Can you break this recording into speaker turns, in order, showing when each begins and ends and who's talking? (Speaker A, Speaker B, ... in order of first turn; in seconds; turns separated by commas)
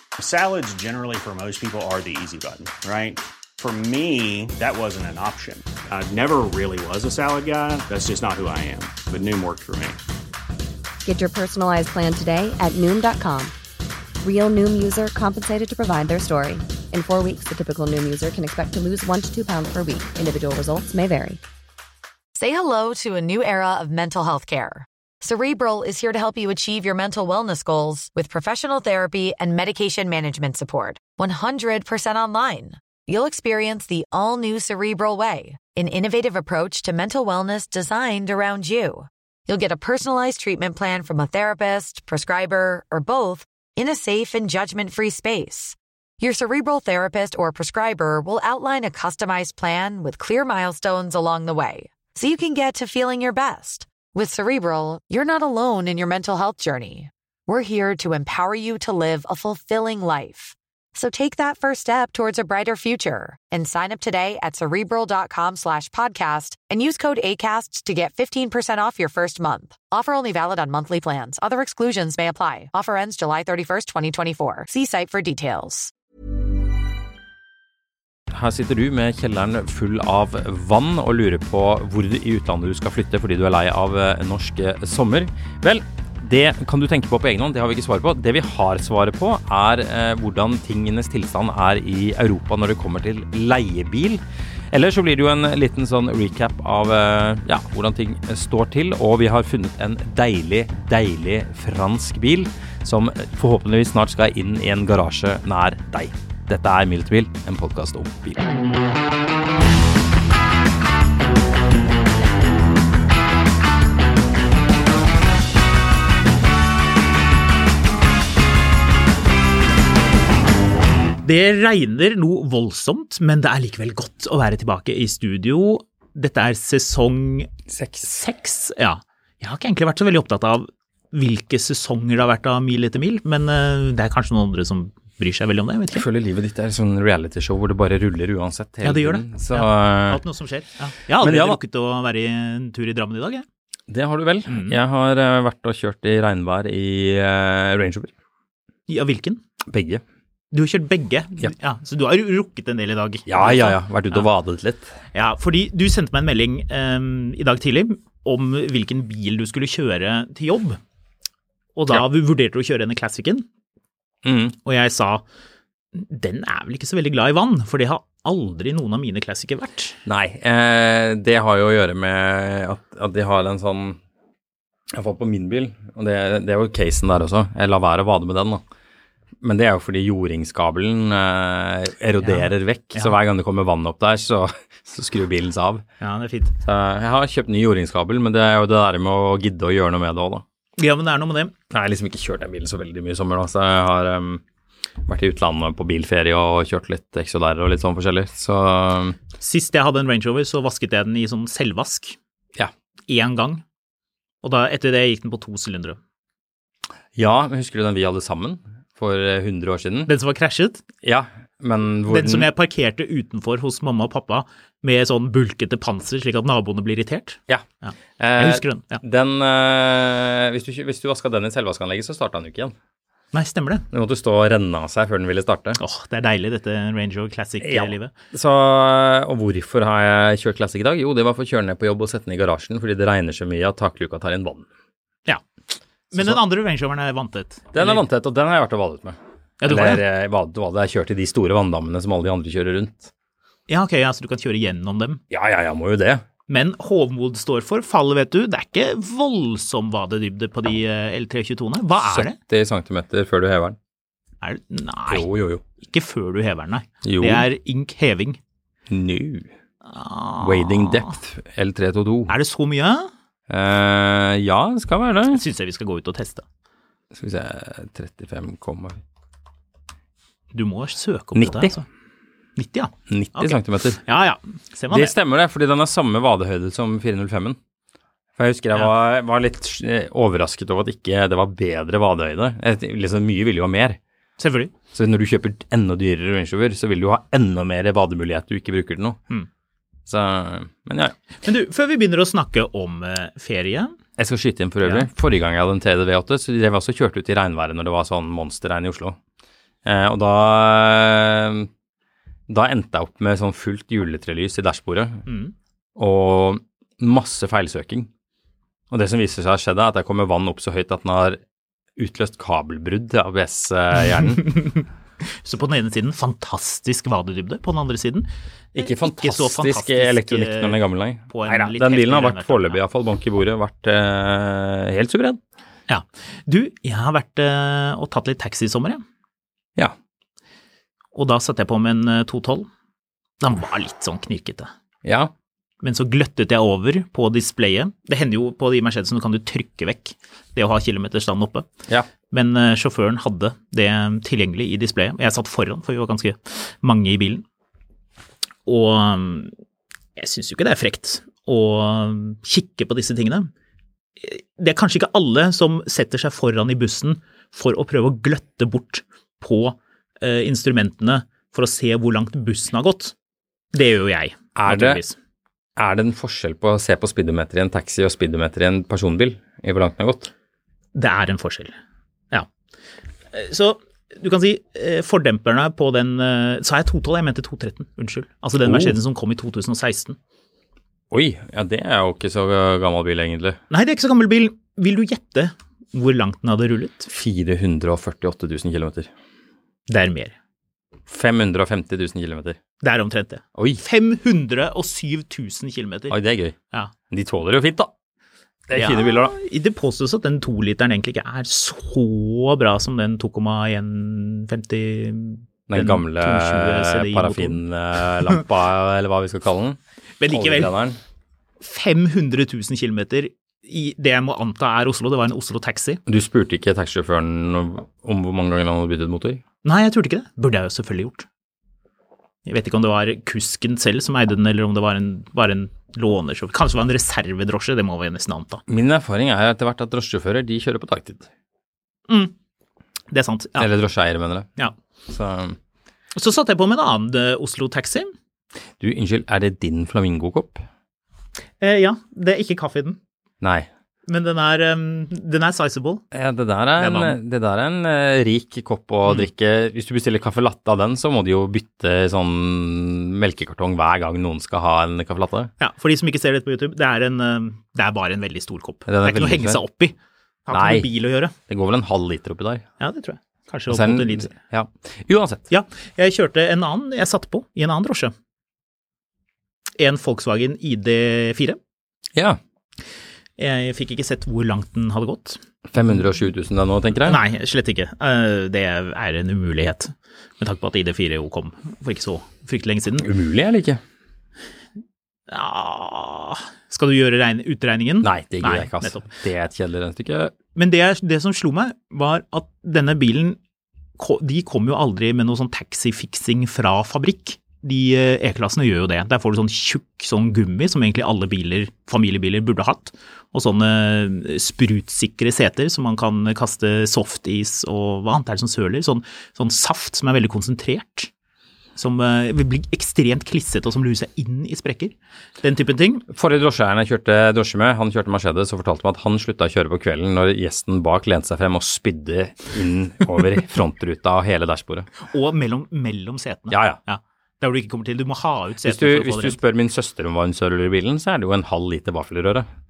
Speaker A: 0.2-10.0, Speaker B: 11.1-13.6, Speaker B: 14.2-21.4, Speaker C: 22.4-75.9, Speaker D: 78.3-108.4, Speaker E: 121.2-127.5, Speaker D: 127.7-128.2, Speaker E: 128.0-136.1, Speaker D: 135.9-140.2, Speaker E: 138.8-143.5, Speaker D: 141.2-141.6, Speaker D: 143.9-148.1, Speaker E: 144.5-144.8, Speaker E: 148.9-149.4, Speaker D: 149.7-150.0, Speaker E: 150.5-154.3, Speaker D: 153.3-154.9, Speaker E: 155.1-160.8, Speaker E: 161.8-163.5, Speaker D: 164.2-164.6, Speaker E: 164.7-165.2, Speaker E: 165.9-170.0, Speaker D: 170.1-174.0, Speaker D: 174.9-178.6, Speaker D: 179.4-185.8, Speaker E: 182.2-183.2, Speaker E: 186.0-186.6, Speaker D: 186.6-190.4, Speaker E: 190.8-191.5, Speaker D: 191.7-194.4, Speaker D: 195.1-199.2, Speaker E: 199.4-202.2, Speaker E: 203.1-203.6, Speaker E: 204.4-206.0, Speaker D: 207.2-210.1, Speaker E: 210.1-210.8, Speaker D: 211.0-212.5, Speaker E: 212.1-219.0, Speaker D: 218.2-222.8, Speaker E: 223.3-223.9, Speaker D: 223.9-225.8, Speaker E: 225.8-228.1, Speaker D: 227.6-234.7, Speaker D: 236.1-236.4, Speaker E: 236.1-238.0, Speaker D: 237.7-243.1, Speaker E: 239.6-240.0, Speaker E: 243.7-245.2, Speaker D: 245.3-246.2, Speaker E: 246.5-252.4, Speaker D: 252.0-253.8, Speaker E: 254.4-255.3, Speaker D: 255.1-255.6, Speaker E: 255.8-258.4, Speaker D: 257.0-257.5, Speaker D: 258.9-259.5, Speaker E: 259.9-261.2, Speaker D: 260.4-262.4, Speaker E: 262.3-263.1, Speaker D: 263.5-265.4, Speaker E: 265.3-266.4, Speaker D: 267.1-269.0, Speaker E: 270.5-271.9, Speaker D: 271.4-271.7, Speaker E: 272.6-275.1, Speaker D: 273.1-274.0, Speaker D: 274.9-277.6, Speaker D: 278.4-284.0, Speaker E: 284.4-284.7, Speaker D: 284.9-289.2, Speaker D: 290.1-291.2, Speaker E: 291.4-294.0, Speaker D: 294.2-299.2, Speaker E: 294.8-295.1, Speaker D: 299.9-301.7, Speaker D: 302.5-305.3, Speaker E: 305.3-305.5, Speaker D: 306.0-308.1, Speaker D: 308.9-311.4, Speaker D: 312.0-314.6, Speaker E: 314.1-320.8, Speaker D: 318.8-325.4, Speaker E: 321.3-322.8, Speaker E: 325.9-329.0, Speaker E: 331.1-332.7, Speaker E: 333.4-334.7, Speaker D: 335.1-335.3, Speaker E: 335.8-341.7, Speaker E: 342.3-347.4, Speaker E: 348.7-349.5, Speaker E: 350.2-353.5, Speaker E: 354.2-363.1, Speaker E: 363.7-365.2, Speaker D: 364.6-365.0, Speaker D: 365.8-370.3, Speaker E: 370.9-371.7, Speaker E: 373.3-380.2, Speaker D: 378.6-378.9, Speaker D: 381.1-383.6, Speaker E: 383.7-387.1, Speaker D: 387.1-389.1, Speaker E: 389.9-390.4, Speaker D: 391.1-392.6, Speaker E: 392.8-396.2, Speaker D: 393.6-393.8, Speaker D: 396.1-396.6, Speaker D: 397.1-397.9, Speaker D: 398.7-399.3, Speaker E: 398.8-407.6, Speaker D: 405.7-411.0, Speaker E: 410.2-410.7, Speaker E: 411.6-416.0, Speaker D: 416.1-419.4, Speaker E: 419.6-421.3, Speaker E: 422.5-428.6, Speaker D: 428.7-431.3, Speaker E: 432.1-432.3, Speaker E: 433.1-433.7, Speaker D: 433.6-434.6, Speaker D: 435.1-435.6, Speaker E: 436.1-438.1, Speaker D: 438.8-440.6, Speaker E: 441.6-443.0, Speaker D: 443.4-443.7, Speaker E: 444.1-446.0, Speaker D: 446.1-455.5, Speaker E: 446.8-447.2, Speaker E: 455.6-460.0, Speaker D: 458.9-459.6, Speaker E: 460.5-461.3, Speaker D: 460.5-460.9, Speaker D: 461.5-462.7, Speaker E: 462.8-464.3, Speaker D: 463.7-465.5, Speaker E: 465.5-468.1, Speaker E: 469.8-471.6, Speaker E: 473.4-475.4, Speaker D: 475.7-477.2, Speaker E: 477.0-483.1, Speaker D: 483.0-483.8, Speaker E: 485.3-489.1, Speaker D: 488.0-490.3, Speaker E: 490.6-493.4, Speaker E: 494.0-511.1, Speaker E: 511.8-516.0, Speaker D: 516.1-524.9, Speaker E: 525.0-529.4, Speaker D: 526.5-526.8, Speaker D: 528.6-532.5